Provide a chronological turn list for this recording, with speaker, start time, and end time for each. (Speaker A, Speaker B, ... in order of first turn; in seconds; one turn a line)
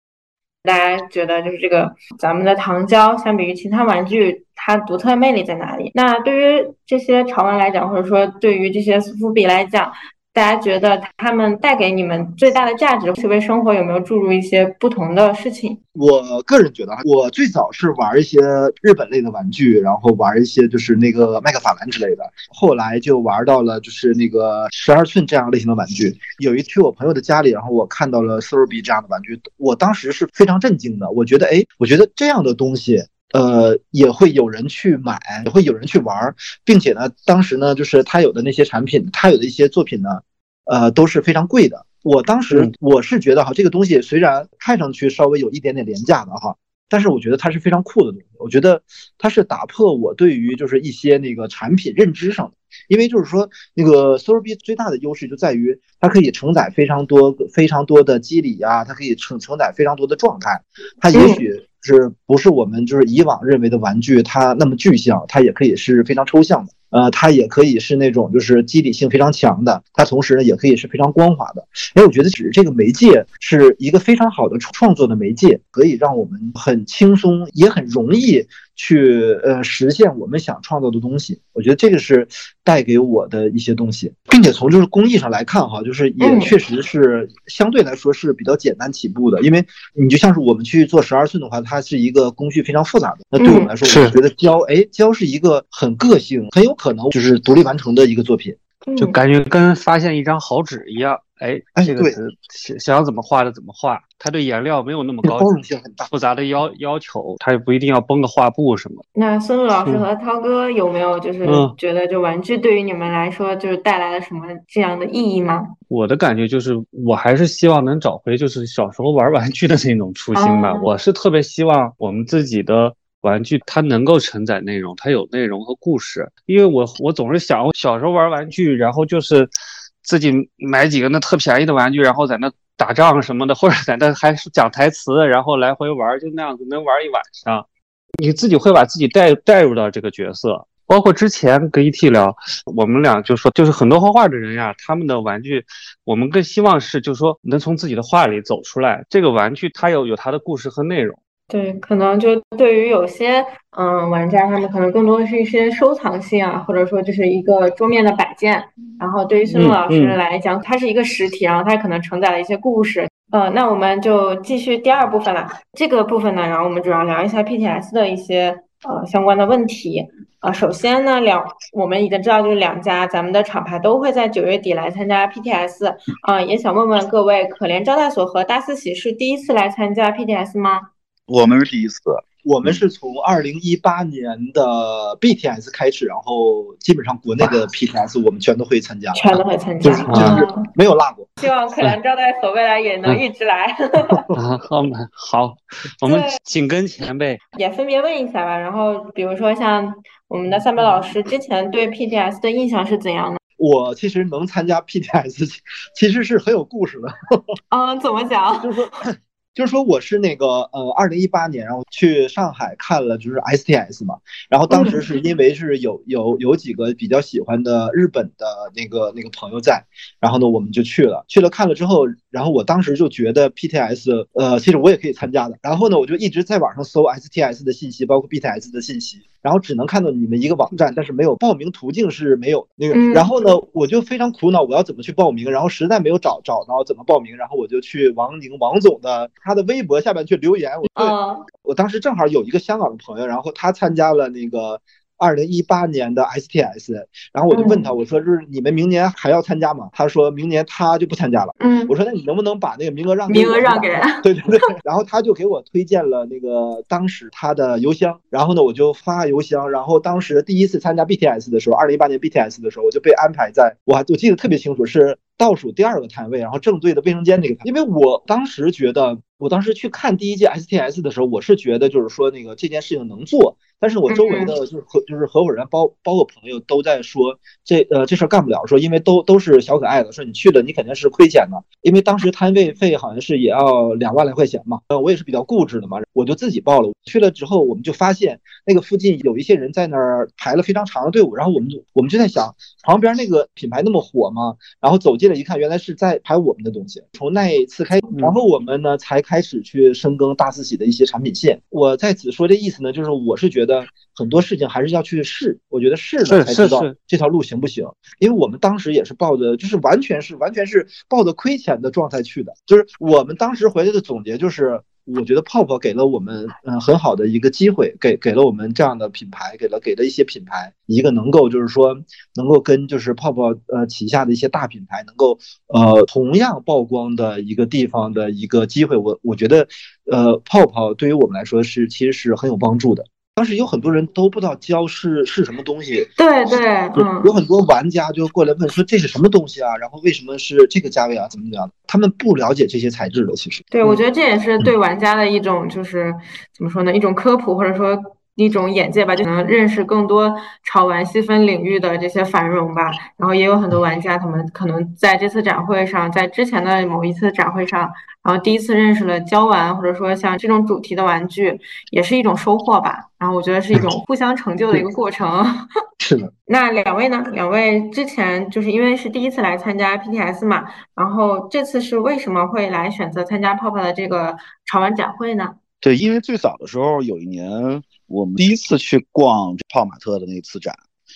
Speaker A: 0.6-15.8
Speaker B: 15.9-98.6
Speaker A: 61.1-61.4
Speaker A: 86.2-86.5
Speaker A: 93.4-93.7
Speaker C: 93.9-94.2
Speaker A: 98.9-99.2
Speaker C: 99.0-105.5
Speaker B: 101.8-102.2
Speaker B: 105.2-106.1
Speaker C: 106.1-109.0
Speaker A: 109.2-115.7
Speaker C: 111.5-111.7
Speaker C: 115.9-129.5
Speaker A: 120.3-120.9
Speaker C: 130.0-137.7
Speaker C: 138.2-151.2
Speaker A: 151.5-180.9
Speaker C: 159.5-160.2
Speaker D: 181.3-182.8
Speaker B: 182.4-191.3
Speaker A: 189.1-190.7
Speaker C: 190.1-190.3
Speaker A: 191.4-194.2
Speaker B: 194.1-194.4
Speaker C: 194.3-197.4
Speaker A: 196.1-196.4
Speaker A: 197.6-203.4
Speaker B: 203.6-207.4
Speaker A: 207.7-208.8
Speaker B: 208.6-336.1
Speaker A: 214.7-215.0
Speaker A: 232.9-233.3
Speaker A: 241.0-241.4
Speaker A: 247.5-247.9
Speaker A: 251.6-251.9
Speaker A: 253.3-254.7
Speaker A: 274.1-274.5
Speaker C: 306.3-306.9
Speaker A: 336.2-337.3
Speaker B: 336.9-344.0
Speaker A: 343.7-365.6
Speaker B: 366.0-366.3
Speaker A: 366.5-375.6
Speaker D: 375.8-380.8